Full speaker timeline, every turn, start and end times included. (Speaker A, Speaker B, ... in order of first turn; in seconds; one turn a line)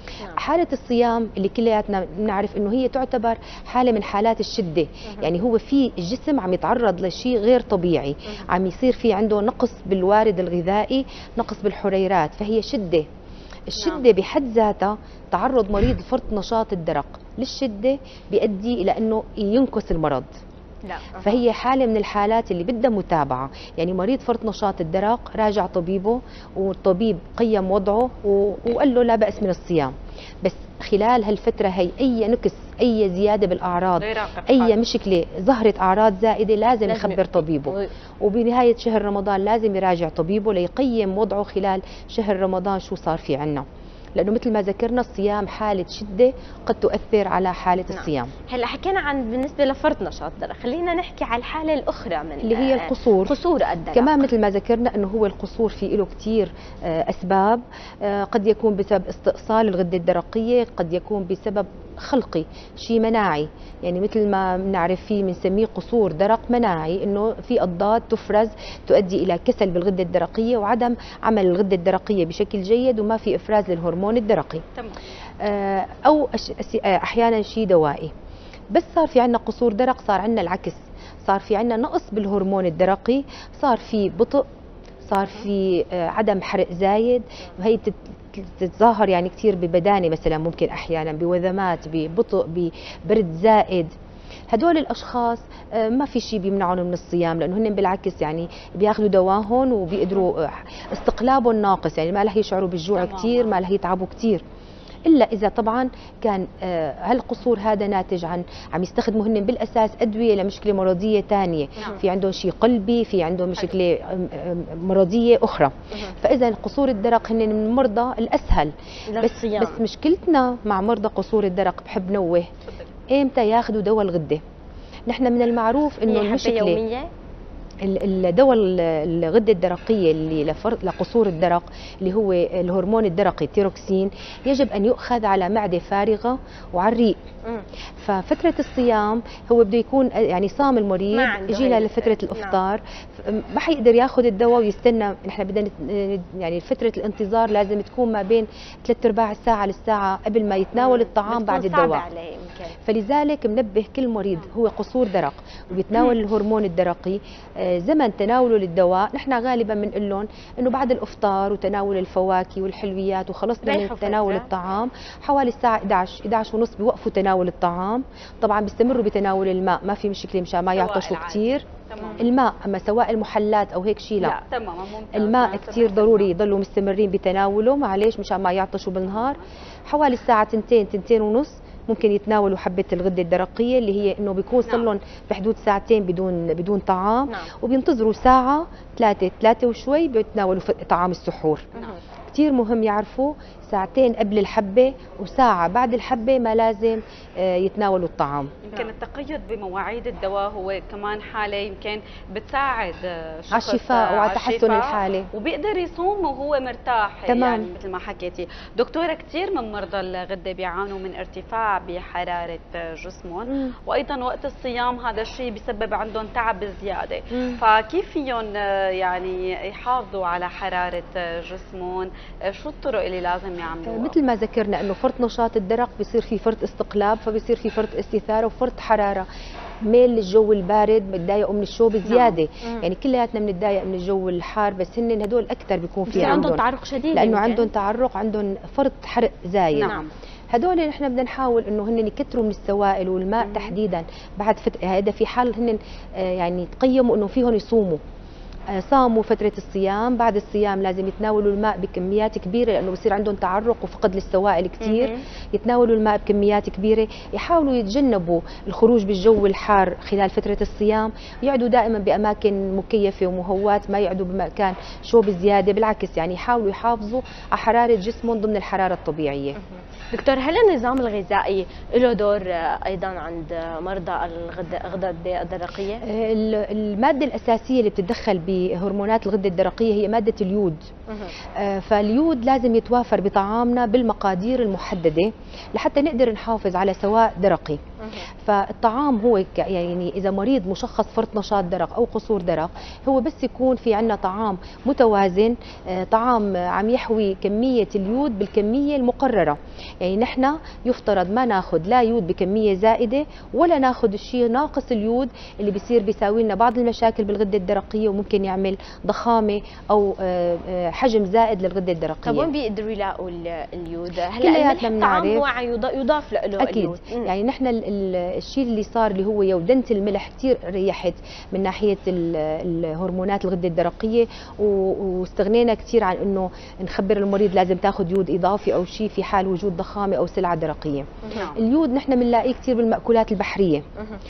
Speaker A: 0.3-13.1
Speaker A: 13.7-20.3
Speaker B: 20.9-21.4
Speaker A: 21.2-43.6
Speaker C: 34.0-34.7
Speaker B: 36.9-37.9
Speaker A: 44.2-48.3
Speaker B: 47.9-54.2
Speaker A: 52.4-53.3
Speaker A: 53.9-74.6
Speaker A: 75.4-78.1
Speaker A: 78.7-84.4
Speaker A: 85.0-93.9
Speaker A: 94.5-104.4
Speaker C: 103.0-103.5
Speaker A: 105.1-122.5
Speaker B: 119.1-119.8
Speaker A: 123.1-124.4
Speaker A: 125.1-126.8
Speaker B: 126.1-127.1
Speaker A: 127.8-137.2
Speaker A: 138.0-152.0
Speaker B: 141.1-142.6
Speaker B: 150.8-152.8
Speaker A: 152.8-171.7
Speaker B: 163.6-164.5
Speaker C: 170.8-172.3
Speaker A: 172.2-174.4
Speaker C: 174.2-176.3
Speaker A: 175.2-191.7
Speaker C: 179.1-179.5
Speaker A: 192.3-198.5
Speaker C: 198.7-224.2
Speaker A: 203.5-205.3
Speaker A: 207.3-207.7
Speaker A: 223.8-229.3
Speaker A: 229.9-236.6
Speaker C: 232.1-232.3
Speaker B: 236.1-237.7
Speaker A: 237.1-240.0
Speaker C: 239.8-240.1
Speaker A: 240.5-248.0
Speaker B: 243.4-243.7
Speaker A: 248.8-269.6
Speaker C: 254.8-255.2
Speaker B: 270.1-276.0
Speaker A: 276.1-280.8
Speaker A: 281.6-287.8
Speaker A: 288.4-312.5
Speaker B: 312.2-317.3
Speaker A: 314.4-315.4
Speaker A: 316.6-333.8
Speaker C: 331.3-331.6